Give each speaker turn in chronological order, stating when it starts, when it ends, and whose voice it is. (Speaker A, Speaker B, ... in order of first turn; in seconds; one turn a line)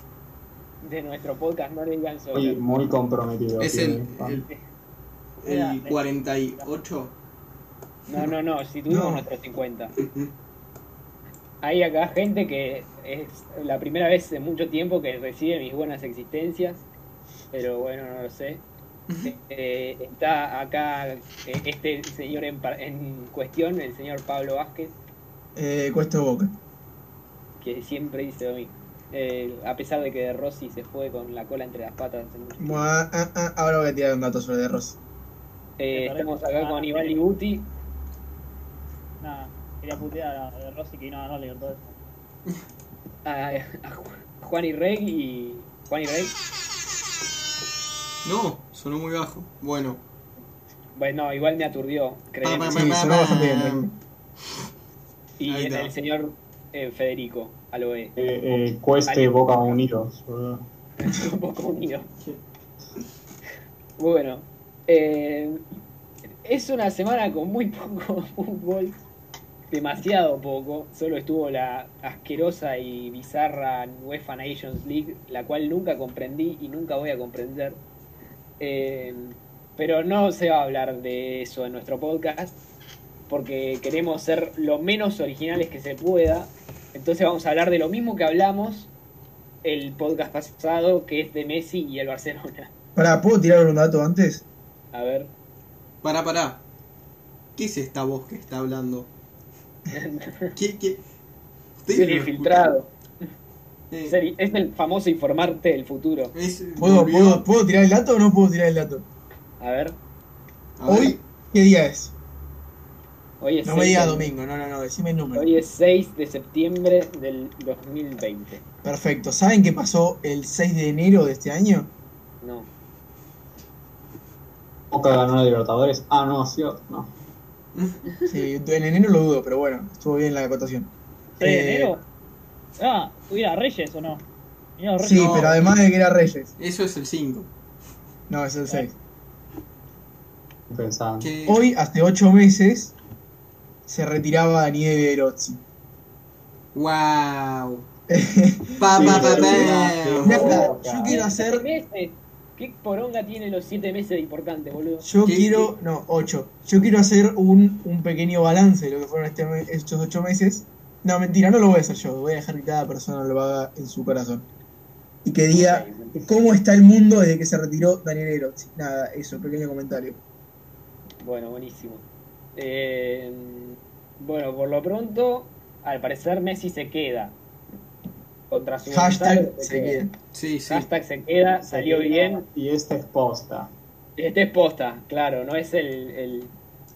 Speaker A: 0.8-2.6
Speaker B: 2.3-4.5
Speaker C: 3.6-4.5
Speaker C: 5.4-7.2
Speaker D: 5.4-6.0
Speaker A: 8.1-9.9
Speaker E: 8.9-9.2
Speaker A: 11.6-16.9
Speaker A: 17.5-18.6
Speaker A: 19.2-25.0
Speaker E: 25.6-26.5
Speaker A: 27.6-32.8
Speaker E: 32.6-35.0
Speaker A: 35.8-37.7
Speaker D: 35.9-37.2
Speaker D: 39.2-41.9
Speaker A: 43.2-46.4
Speaker C: 48.2-50.0
Speaker A: 51.0-53.0
Speaker C: 52.4-53.9
Speaker E: 52.7-53.9
Speaker A: 55.4-58.1
Speaker C: 55.5-55.9
Speaker B: 58.2-60.6
Speaker A: 59.1-59.8
Speaker A: 61.0-62.1
Speaker A: 64.0-65.6
Speaker A: 66.4-69.0
Speaker A: 69.7-77.8
Speaker A: 78.6-82.6
Speaker A: 83.3-88.9
Speaker A: 89.6-92.7
Speaker E: 93.0-94.4
Speaker A: 94.9-95.3
Speaker C: 96.0-96.6
Speaker C: 97.5-99.1
Speaker A: 99.9-100.5
Speaker C: 100.5-101.0
Speaker C: 101.8-102.5
Speaker A: 101.9-102.9
Speaker A: 104.1-106.3
Speaker C: 106.3-107.4
Speaker E: 106.8-109.0
Speaker A: 109.6-110.0
Speaker C: 110.8-111.2
Speaker E: 110.9-112.1
Speaker A: 113.4-114.3
Speaker E: 113.6-115.5
Speaker A: 115.3-118.6
Speaker E: 118.8-121.9
Speaker A: 122.4-122.7
Speaker B: 124.9-127.1
Speaker C: 127.8-128.0
Speaker E: 128.3-131.9
Speaker D: 131.4-132.0
Speaker D: 132.8-134.2
Speaker D: 134.8-135.5
Speaker C: 135.0-135.8
Speaker E: 135.0-136.5
Speaker C: 136.6-137.5
Speaker E: 138.3-138.9
Speaker B: 140.7-141.3
Speaker C: 141.2-141.6
Speaker E: 141.5-142.9
Speaker E: 143.9-145.6
Speaker C: 146.7-147.8
Speaker E: 148.1-151.7
Speaker C: 148.8-150.6
Speaker B: 148.9-151.2
Speaker A: 151.1-155.1
Speaker E: 155.0-164.5
Speaker C: 155.2-155.7
Speaker E: 165.2-170.2
Speaker A: 165.5-166.2
Speaker A: 171.2-172.0
Speaker A: 172.6-177.4
Speaker A: 178.5-180.0
Speaker E: 178.9-180.1
Speaker C: 180.3-180.9
Speaker A: 180.7-182.4
Speaker B: 181.7-183.7
Speaker A: 184.2-186.5